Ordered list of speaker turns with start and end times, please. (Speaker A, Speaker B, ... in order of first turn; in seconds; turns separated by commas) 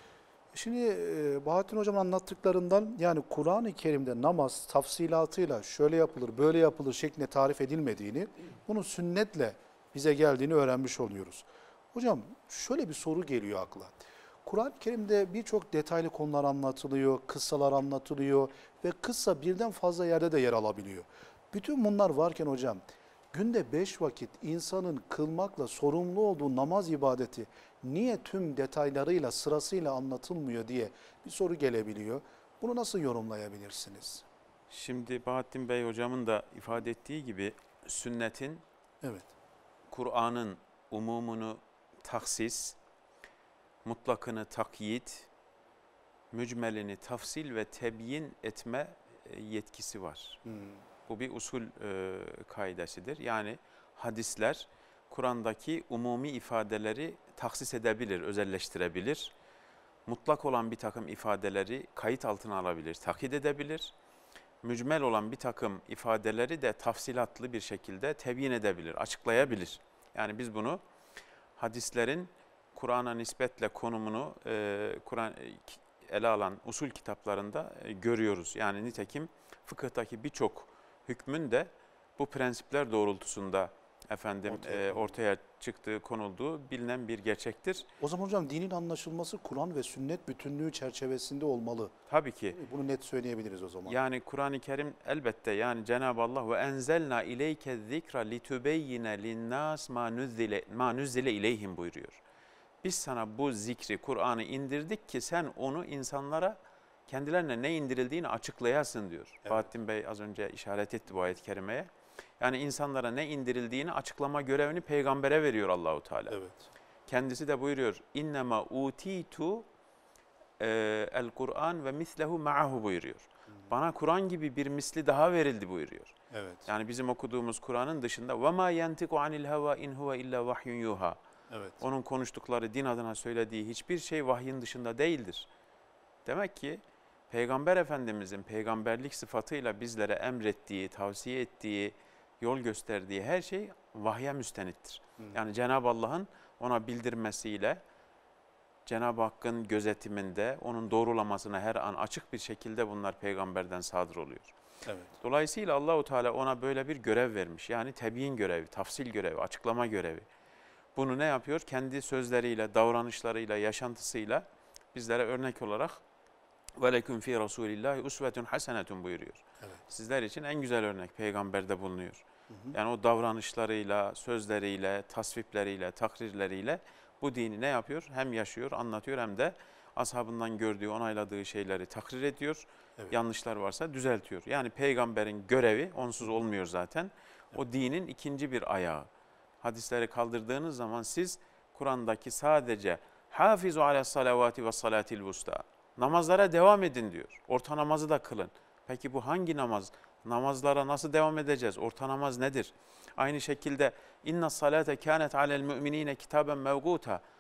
Speaker A: 0.5-22.8, Speaker A: 23.3-34.2, Speaker B: 34.7-38.6, Speaker A: 39.0-39.3, Speaker B: 39.9-42.8, Speaker B: 43.8-45.3, Speaker B: 46.3-50.4, Speaker A: 50.5-50.8, Speaker B: 51.1-59.3, Speaker B: 60.0-63.9, Speaker B: 64.6-70.8, Speaker B: 71.6-87.9, Speaker A: 84.5-85.2, Speaker A: 88.0-91.9, Speaker B: 92.1-92.6, Speaker A: 92.5-94.0, Speaker B: 93.9-102.2, Speaker B: 102.8-111.9, Speaker B: 112.4-116.4, Speaker A: 116.3-116.6, Speaker B: 117.1-119.7, Speaker B: 120.6-126.2, Speaker A: 126.3-126.7, Speaker B: 126.7-131.2, Speaker A: 131.5-131.8, Speaker B: 131.8-135.5, Speaker B: 136.2-147.8, Speaker B: 148.9-154.5, Speaker A: 154.8-155.1, Speaker B: 155.2-160.2, Speaker B: 160.9-166.0, Speaker B: 166.8-189.1, Speaker B: 189.6-207.2